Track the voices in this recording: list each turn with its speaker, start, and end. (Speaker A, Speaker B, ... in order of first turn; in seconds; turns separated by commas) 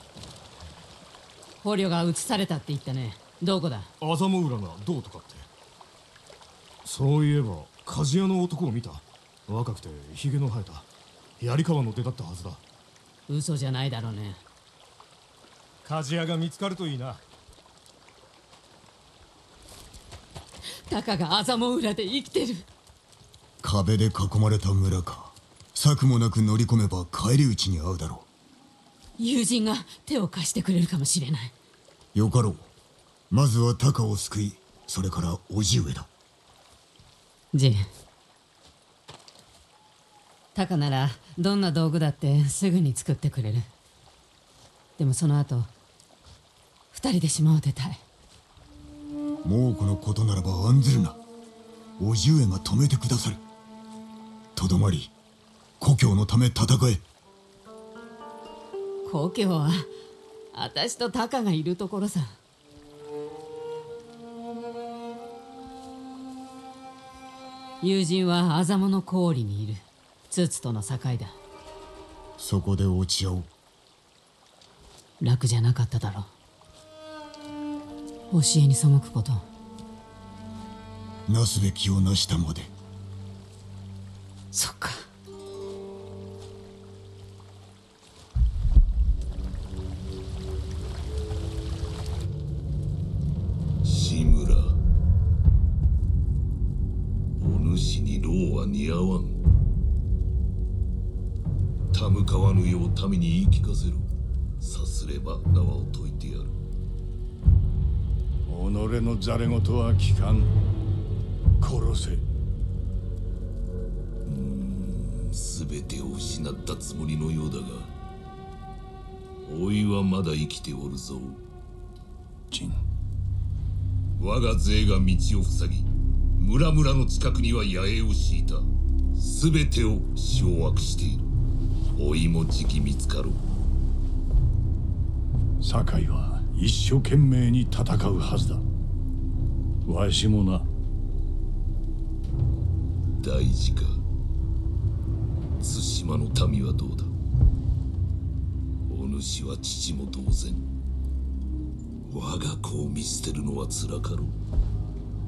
Speaker A: 1.6-3.9, Speaker B: 4.0-5.5, Speaker B: 6.8-10.9, Speaker B: 11.4-12.6, Speaker A: 13.3-14.4, Speaker B: 15.8-17.2, Speaker A: 20.9-22.7, Speaker C: 23.6-28.3, Speaker A: 29.2-31.5, Speaker C: 32.1-32.7, Speaker C: 33.3-36.1, Speaker A: 37.5-37.9, Speaker A: 40.5-43.7, Speaker A: 45.0-45.7, Speaker A: 46.9-48.0, Speaker C: 49.4-51.2, Speaker C: 52.0-53.4, Speaker C: 54.5-55.1, Speaker C: 55.8-57.0, Speaker A: 59.0-59.9, Speaker A: 60.5-62.4, Speaker A: 67.8-71.3, Speaker C: 72.4-73.5, Speaker A: 75.2-76.3, Speaker A: 78.3-79.4, Speaker C: 81.3-82.7, Speaker A: 84.5-85.1, Speaker D: 93.8-94.8, Speaker D: 97.4-99.4, Speaker D: 101.9-104.1, Speaker D: 104.6-106.5, Speaker E: 108.5-110.5, Speaker E: 111.6-112.2, Speaker D: 114.2-117.9, Speaker D: 119.4-121.4, Speaker E: 122.5-122.8, Speaker D: 124.2-131.3, Speaker D: 131.9-133.4, Speaker E: 135.6-138.6, Speaker E: 139.8-140.7, Speaker D: 143.2-144.0, Speaker D: 145.6-147.1, Speaker D: 148.9-150.7, Speaker D: 152.0-154.3